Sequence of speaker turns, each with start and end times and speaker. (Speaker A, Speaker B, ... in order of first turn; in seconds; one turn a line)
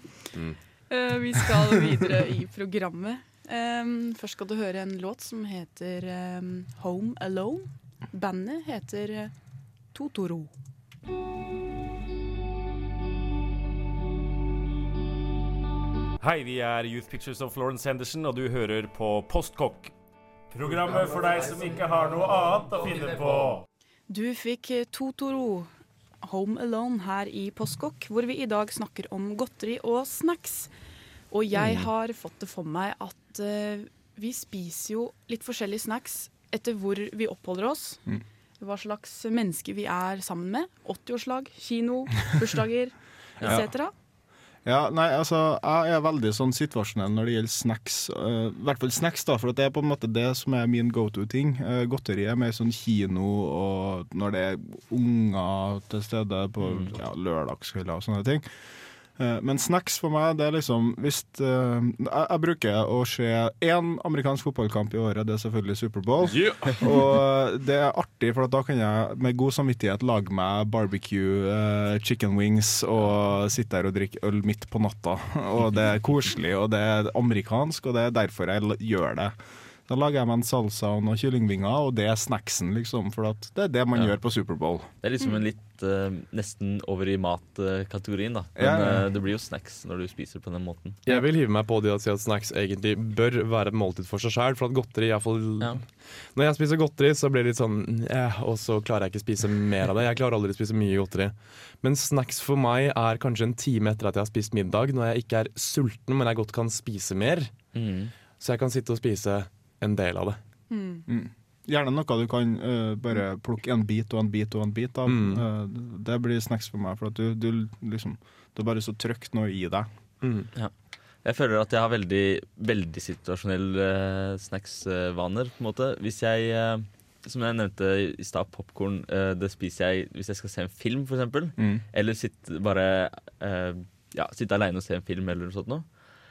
Speaker A: 0.9-9.3
Speaker A: 9.9-10.5
Speaker B: 16.2-19.9
Speaker B: 20.5-23.6
Speaker A: 24.1-25.7
Speaker A: 26.2-30.7
Speaker A: 31.3-38.0
Speaker A: 38.6-43.9
Speaker C: 43.4-43.6
Speaker C: 44.6-58.5
Speaker D: 56.6-56.9
Speaker C: 59.2-79.4
Speaker E: 66.3-67.0
Speaker C: 79.9-84.9
Speaker D: 85.0-91.0
Speaker C: 88.6-89.1
Speaker E: 91.1-107.5
Speaker D: 107.7-108.1
Speaker E: 108.4-110.4
Speaker A: 110.7-111.0
Speaker C: 111.1-119.9
Speaker E: 115.1-115.4
Speaker E: 120.2-120.5
Speaker D: 121.2-135.9
Speaker C: 131.6-131.8